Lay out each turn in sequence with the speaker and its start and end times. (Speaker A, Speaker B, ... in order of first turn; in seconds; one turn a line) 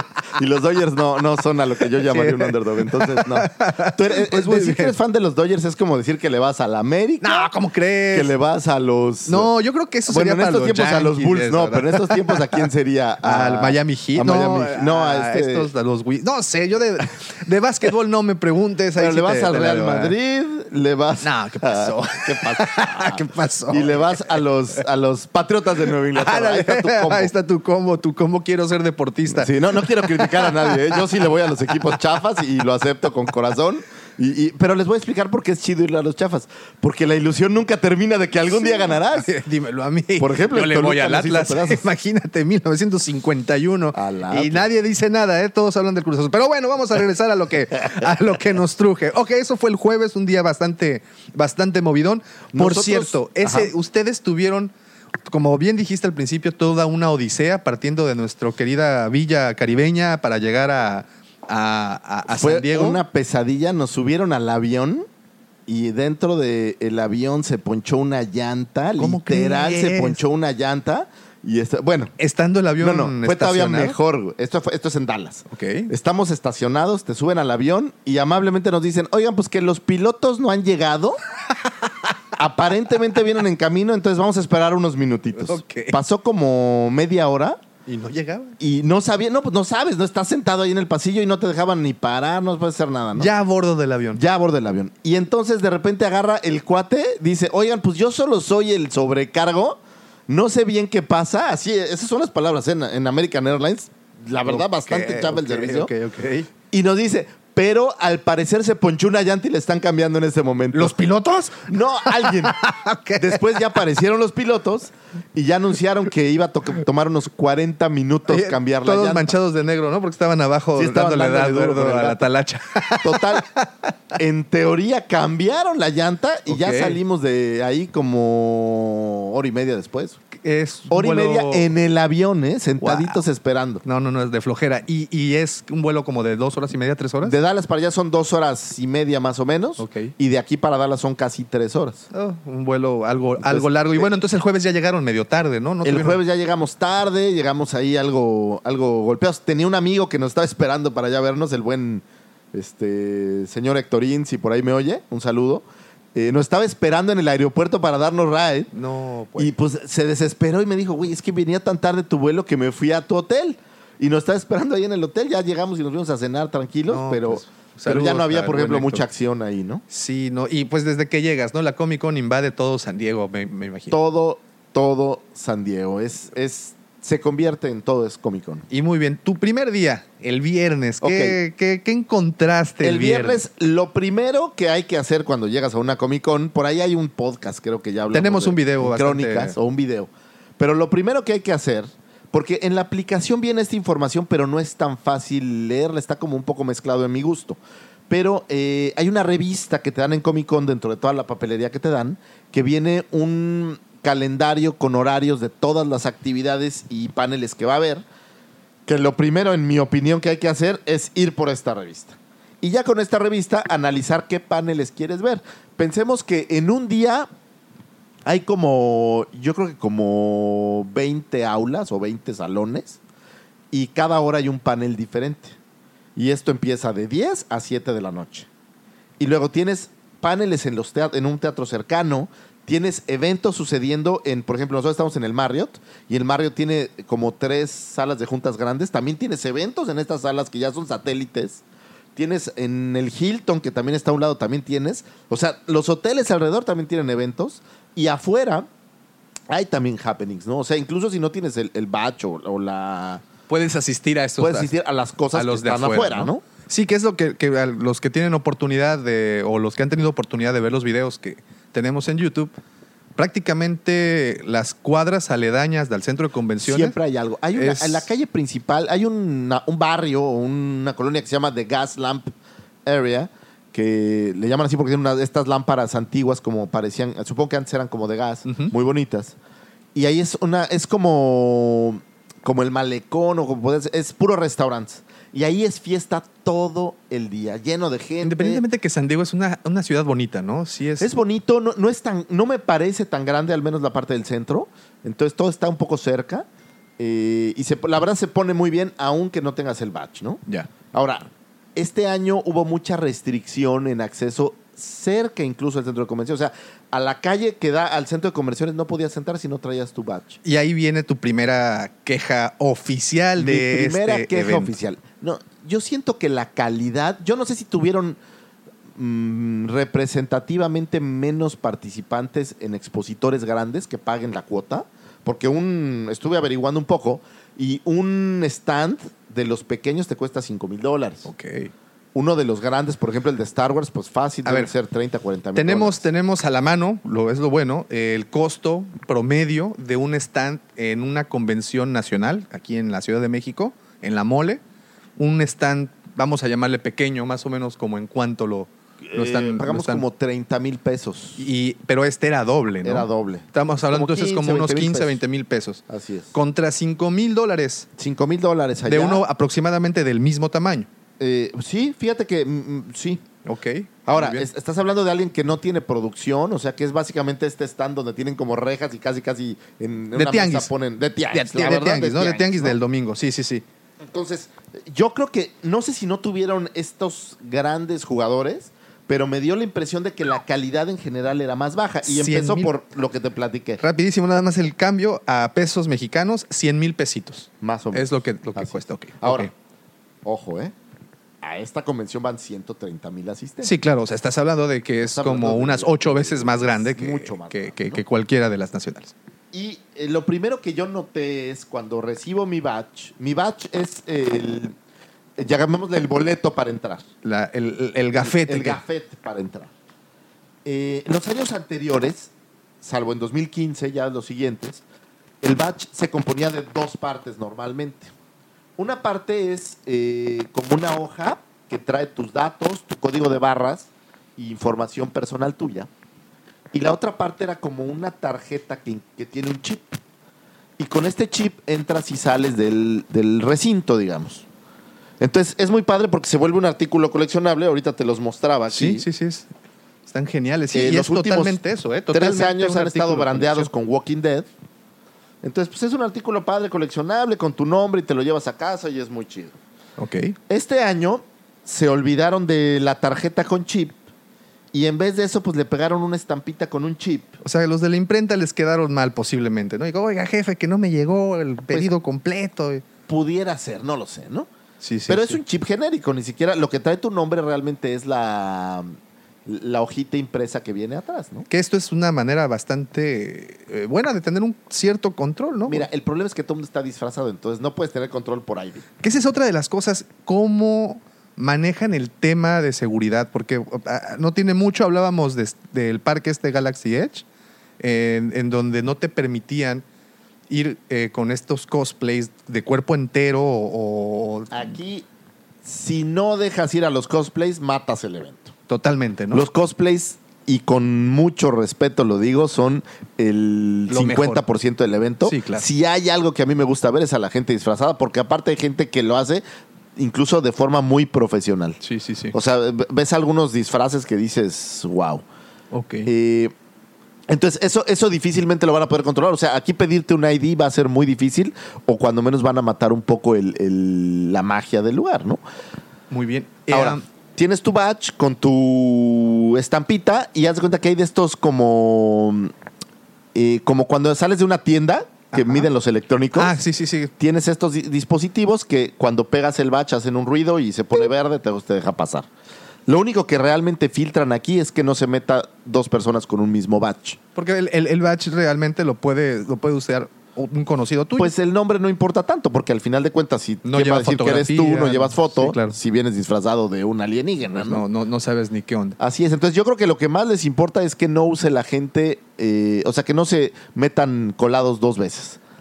Speaker A: 0.3-7.5
Speaker B: 2.0-5.0
Speaker B: 7.2-8.3
Speaker A: 8.1-9.5
Speaker B: 9.2-12.7
Speaker A: 10.1-15.7
Speaker B: 13.2-20.1
Speaker A: 18.9-27.3
Speaker B: 21.2-24.3
Speaker B: 26.1-31.0
Speaker A: 29.3-39.3
Speaker B: 38.6-54.7
Speaker A: 40.2-41.9
Speaker A: 43.9-44.7
Speaker A: 52.5-53.7
Speaker B: 55.3-63.0
Speaker A: 62.3-65.1
Speaker A: 65.7-72.1
Speaker B: 69.0-70.2
Speaker B: 72.2-74.0
Speaker A: 72.8-81.2
Speaker B: 75.5-75.9
Speaker B: 81.8-82.1
Speaker A: 82.3-87.6
Speaker B: 85.3-86.0
Speaker B: 87.9-88.5
Speaker A: 88.6-93.3
Speaker B: 93.1-94.2
Speaker A: 94.1-105.9
Speaker B: 104.4-106.5
Speaker A: 106.7-111.0
Speaker B: 110.7-113.8
Speaker A: 111.6-112.6
Speaker A: 113.2-119.3
Speaker B: 118.3-123.9
Speaker A: 120.8-122.2
Speaker A: 123.0-123.5
Speaker A: 124.1-130.2
Speaker B: 126.5-127.0
Speaker B: 130.3-131.7
Speaker A: 130.9-133.8
Speaker B: 132.8-133.2
Speaker B: 133.8-137.3
Speaker A: 137.2-142.1
Speaker B: 139.8-140.1
Speaker B: 142.1-146.2
Speaker A: 143.4-144.1
Speaker A: 145.8-158.7
Speaker B: 158.7-159.5
Speaker A: 159.3-169.8
Speaker B: 166.9-169.0
Speaker B: 169.9-174.0
Speaker A: 173.9-178.7
Speaker B: 178.7-183.4
Speaker A: 181.0-181.4
Speaker A: 182.8-208.0
Speaker B: 188.1-189.6
Speaker A: 208.8-217.3
Speaker A: 218.2-223.0
Speaker A: 223.7-225.6
Speaker A: 226.2-228.5
Speaker A: 229.2-241.6
Speaker A: 242.2-248.7
Speaker A: 249.5-253.2
Speaker B: 253.5-254.7
Speaker A: 254.4-256.4
Speaker B: 255.3-262.5
Speaker B: 263.2-266.9
Speaker A: 266.6-272.3
Speaker B: 267.5-268.1
Speaker A: 272.8-279.4
Speaker B: 278.4-278.7
Speaker A: 279.9-288.6
Speaker B: 288.2-291.1
Speaker A: 291.0-296.5
Speaker A: 297.0-300.4
Speaker A: 300.9-310.4
Speaker B: 310.4-314.7
Speaker A: 313.4-318.2
Speaker A: 318.9-331.3
Speaker B: 331.2-331.7
Speaker A: 332.1-336.0
Speaker B: 334.4-334.7
Speaker B: 335.5-344.6
Speaker B: 345.2-350.0
Speaker A: 349.1-351.5
Speaker B: 351.4-357.9
Speaker A: 352.8-355.2
Speaker A: 355.9-356.3
Speaker A: 358.0-359.2
Speaker B: 358.8-360.9
Speaker A: 361.2-363.2
Speaker B: 363.4-364.5
Speaker A: 364.1-372.8
Speaker B: 370.1-370.7
Speaker B: 371.3-373.6
Speaker A: 374.0-383.8
Speaker B: 382.0-382.7
Speaker B: 383.8-389.5
Speaker A: 387.6-389.5
Speaker A: 390.2-390.7
Speaker A: 391.4-393.7
Speaker B: 393.6-399.1
Speaker A: 395.0-398.0
Speaker A: 399.5-404.7
Speaker A: 405.4-407.1
Speaker B: 407.2-408.8
Speaker A: 408.1-409.7
Speaker A: 410.6-414.8
Speaker A: 415.4-418.1
Speaker A: 418.8-425.9
Speaker A: 426.7-430.0
Speaker A: 430.8-434.4
Speaker A: 435.2-439.0
Speaker B: 438.7-439.5
Speaker B: 440.1-443.7
Speaker A: 440.7-444.5
Speaker A: 445.4-449.6
Speaker B: 450.0-450.4
Speaker A: 450.5-454.0
Speaker A: 454.7-457.4
Speaker B: 457.4-462.8
Speaker A: 463.1-464.5
Speaker B: 464.8-465.4
Speaker A: 465.1-471.5
Speaker B: 471.5-475.9
Speaker A: 475.7-478.8
Speaker B: 479.0-487.2
Speaker B: 487.8-489.8
Speaker B: 490.5-494.7
Speaker A: 494.5-495.0
Speaker A: 495.6-498.5
Speaker B: 498.7-499.4
Speaker A: 499.3-509.4
Speaker B: 503.9-504.4
Speaker B: 505.2-505.7
Speaker A: 509.9-511.8
Speaker B: 511.8-512.3
Speaker A: 512.3-515.2
Speaker B: 515.7-516.1
Speaker A: 516.0-516.5
Speaker A: 517.3-525.4
Speaker B: 526.1-527.0
Speaker A: 526.7-532.5
Speaker A: 533.3-536.6
Speaker B: 535.3-535.7
Speaker B: 536.4-537.1
Speaker A: 537.2-542.3
Speaker A: 542.9-547.2
Speaker B: 547.4-551.3
Speaker A: 551.2-557.8
Speaker B: 553.6-555.8
Speaker B: 557.5-559.0
Speaker A: 559.0-565.4